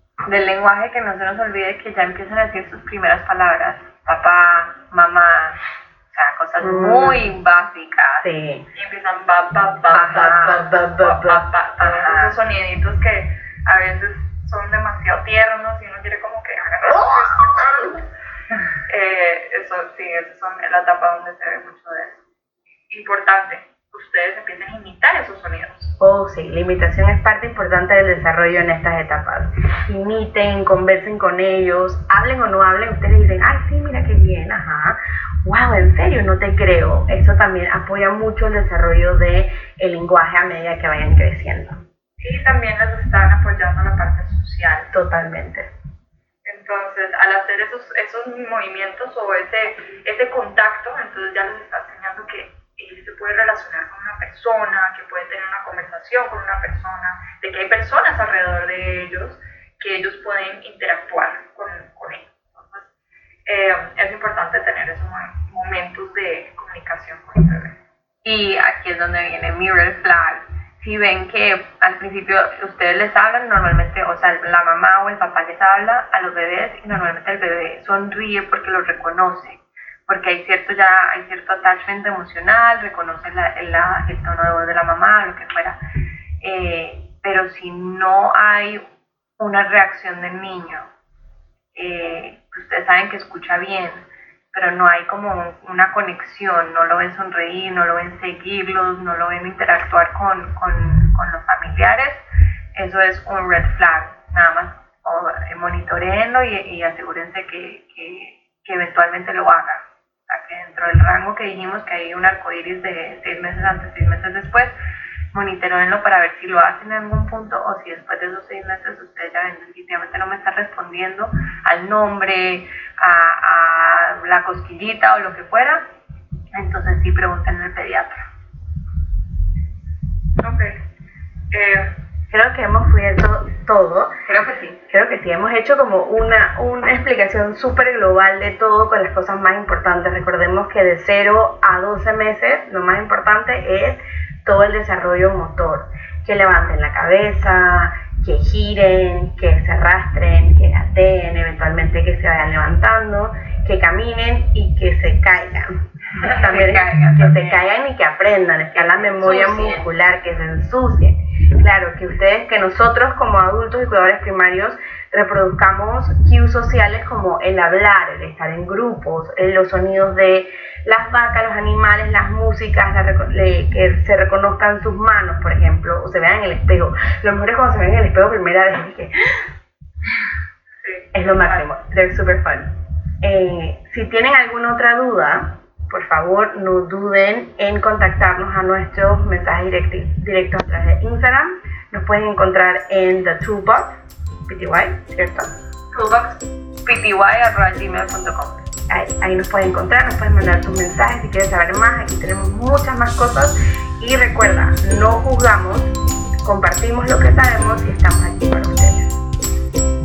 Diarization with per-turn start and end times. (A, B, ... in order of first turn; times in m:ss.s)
0:00.3-0:05.6 A
0:06.1-0:08.3 A
0:06.6-0:07.4 B
0:08.2-0:08.7 B
0:08.8-0:18.0 C
0:09.9-0:10.7 A
0:10.1-0:11.5 B
0:11.8-0:12.4 A
0:16.9-0:17.8 B
0:18.9-0:22.2 C
0:22.9-0:25.9 C
0:26.0-0:41.8 B
0:42.2-0:44.9 C
0:44.9-0:45.7 B
0:46.4-1:02.9 C
1:03.5-1:07.8 C
1:08.2-1:25.8 A
1:26.4-1:28.8 A
1:29.4-1:30.9 A
1:31.8-1:42.2 A
1:42.8-1:54.7 A
1:55.3-2:05.8 A
2:06.5-2:08.2 A
2:10.4-2:10.8 C
2:11.5-2:11.9 C
2:12.3-2:14.1 B
2:14.3-2:14.8 A
2:14.9-2:59.5 B
2:36.2-2:37.6 A
2:38.8-2:39.9 A
3:00.8-3:01.7 C
3:01.1-3:15.5 B
3:15.9-3:18.6 A
3:18.9-3:25.9 B
3:26.4-3:29.1 B